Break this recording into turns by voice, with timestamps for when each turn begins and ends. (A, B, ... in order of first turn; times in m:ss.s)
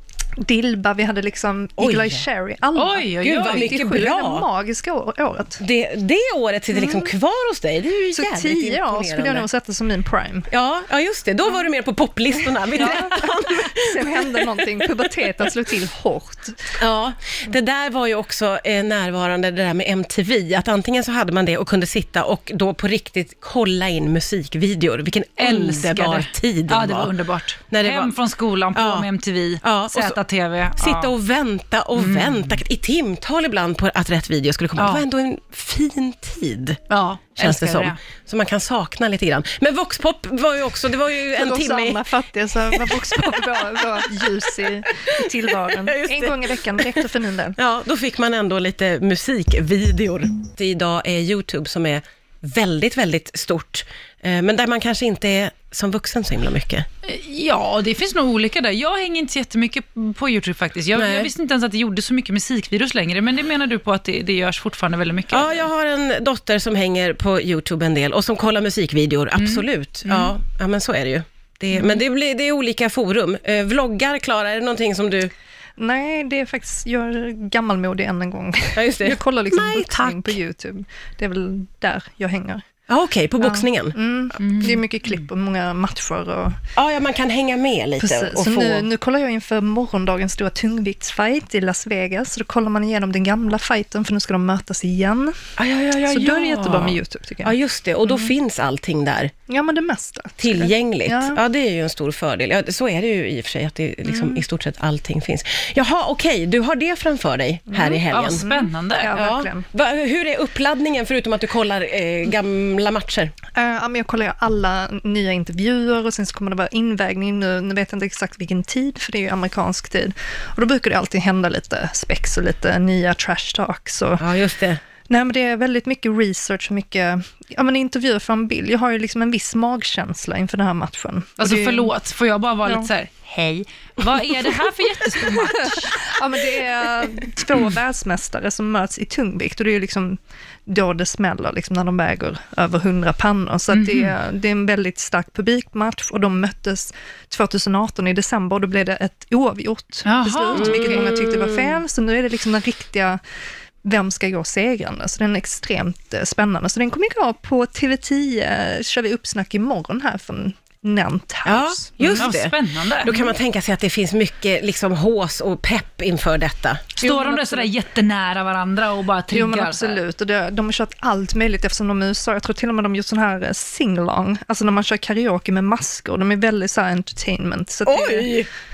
0:00.4-0:05.6 A
0:01.8-0:02.2 B
0:02.7-0:03.8 C
0:03.2-0:04.5 B
0:05.6-0:09.5 B
0:06.7-0:07.1 A
0:08.1-0:10.5 A
0:10.5-0:14.6 B
0:12.4-0:16.8 A
0:16.8-0:27.1 B
0:25.4-0:31.1 C
0:27.7-0:28.1 B
0:28.7-0:29.1 B
0:29.6-0:30.2 B
0:30.8-0:36.8 B
0:32.0-0:32.6 C
0:34.8-0:35.0 C
0:36.9-0:38.0 C
0:37.4-0:42.1 B
0:41.4-0:47.6 A
0:42.6-0:44.3 B
0:44.9-0:46.9 B
0:47.6-0:56.9 B
0:57.0-1:05.7 C
1:00.9-1:01.3 B
1:05.3-1:15.3 B
1:09.3-1:10.3 C
1:15.8-1:22.6 A
1:18.7-1:20.4 B
1:22.9-1:24.0 B
1:23.4-1:26.6 A
1:24.4-1:25.2 C
1:26.8-1:28.9 B
1:28.0-1:35.4 A
1:35.6-1:39.3 B
1:36.1-1:37.6 A
1:38.1-1:38.3 A
1:39.5-1:41.4 A
1:40.4-1:48.4 B
1:44.0-1:44.4 A
1:47.7-1:49.7 A
1:48.1-1:49.1 C
1:49.1-1:53.3 B
1:53.5-2:04.3 A
2:04.2-2:04.8 B
2:05.1-2:11.9 A
2:11.4-2:16.1 C
2:12.6-2:12.9 A
2:15.3-2:33.2 A
2:23.7-2:24.1 C
2:30.0-2:30.9 C
2:30.5-2:31.8 B
2:33.8-2:42.2 A
2:41.4-2:47.7 B
2:42.0-2:43.1 C
2:47.0-2:50.0 C
2:49.3-2:58.4 A
2:57.8-2:58.5 B